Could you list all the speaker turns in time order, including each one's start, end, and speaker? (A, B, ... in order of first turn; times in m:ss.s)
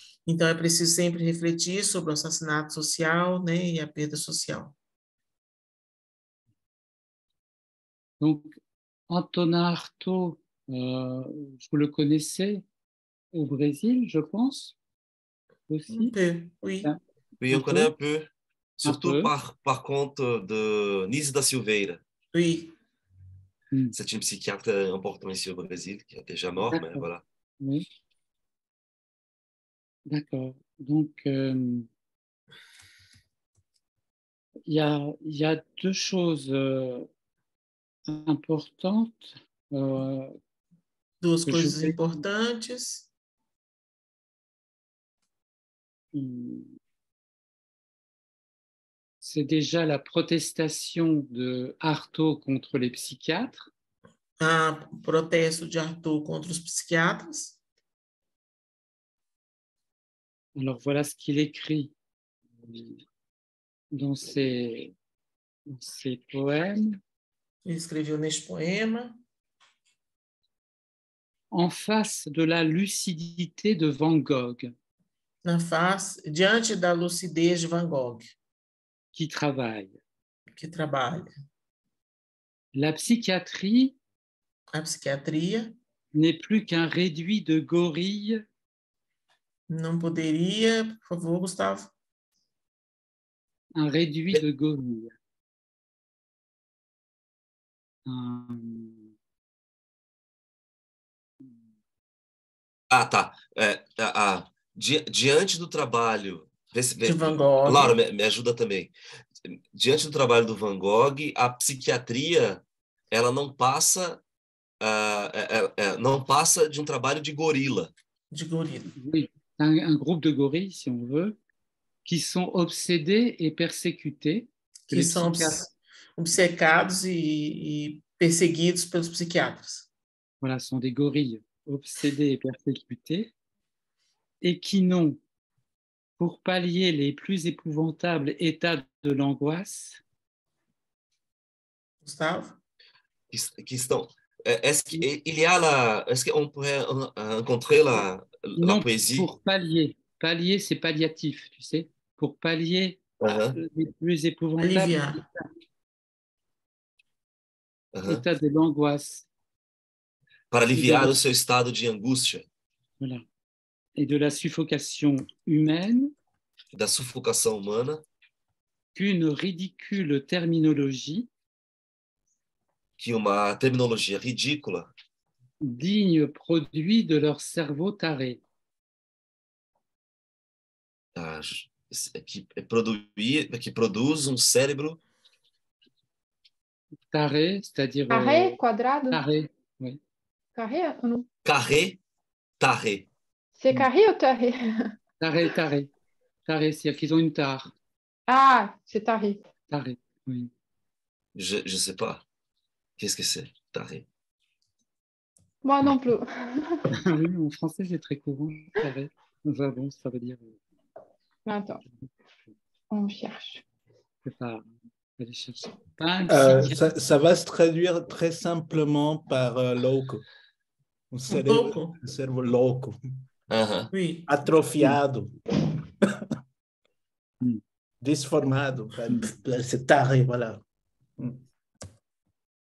0:00.3-0:04.8 A
0:08.2-0:12.6 B
0:13.3-0:14.8 B
0:15.7-0:16.2 B
0:15.9-0:16.9 A
0:17.4-0:22.0 C
0:17.5-0:17.9 B
0:18.8-0:19.3 B
0:22.3-0:22.7 A
0:23.9-0:27.2 C
0:26.7-0:27.1 B
0:27.6-0:27.8 B
0:30.1-0:31.9 B
0:34.7-0:37.1 B
0:38.1-0:40.4 B
0:41.2-0:43.1 A
0:41.4-0:42.2 B
0:46.1-0:46.8 B
0:49.2-0:53.7 B
0:54.4-0:57.6 A
1:00.6-1:01.9 B
1:02.6-1:03.0 B
1:03.9-1:04.9 B
1:05.7-1:07.0 B
1:07.6-1:09.2 A
1:11.5-1:14.7 B
1:15.4-1:18.3 A
1:19.1-1:20.0 B
1:20.6-1:21.3 A
1:22.7-1:24.0 B
1:24.7-1:25.8 A
1:26.1-1:28.4 B
1:29.7-1:31.9 A
1:33.8-1:35.2 B
1:38.1-1:39.1 B
1:42.9-1:48.9 C
1:47.0-1:48.0 A
1:49.4-1:54.2 C
1:54.8-1:57.9 C
1:58.3-1:58.9 A
1:58.9-2:01.4 B
2:02.0-2:05.6 B
2:04.9-2:09.9 A
2:10.4-2:13.3 B
2:14.4-2:15.2 B
2:16.2-2:20.0 B
2:22.0-2:22.6 A
2:23.3-2:29.3 C
2:28.6-2:33.0 B
2:33.2-2:33.6 C
2:33.5-2:35.3 B
2:34.6-2:35.2 A
2:37.9-2:38.2 C
2:38.1-2:39.3 B
2:40.5-2:42.5 C
2:40.7-2:41.2 B
2:44.0-2:46.1 B
2:46.7-2:48.0 C
2:49.0-2:51.3 B
2:53.0-2:54.9 C
2:55.6-2:58.4 B
3:01.2-3:05.0 C
3:07.1-3:08.6 B
3:08.1-3:09.2 D
3:09.1-3:10.0 B
3:10.6-3:11.3 D
3:11.4-3:12.0 C
3:12.6-3:13.1 C
3:13.6-3:14.9 D
3:15.2-3:15.9 B
3:16.5-3:17.7 B
3:18.3-3:19.4 D
3:19.7-3:20.5 B
3:21.4-3:22.2 C
3:23.0-3:24.1 C
3:25.6-3:26.9 D
3:26.9-3:30.6 B
3:31.5-3:31.8 D
3:32.9-3:33.6 D
3:34.2-3:36.8 B
3:36.3-3:40.2 E
3:41.1-3:43.0 E
3:41.3-3:42.0 A
3:43.5-3:43.9 C
3:43.9-3:44.3 A
3:44.3-3:45.4 E
3:48.0-3:50.6 E
3:49.1-3:49.4 B
3:51.2-3:51.4 E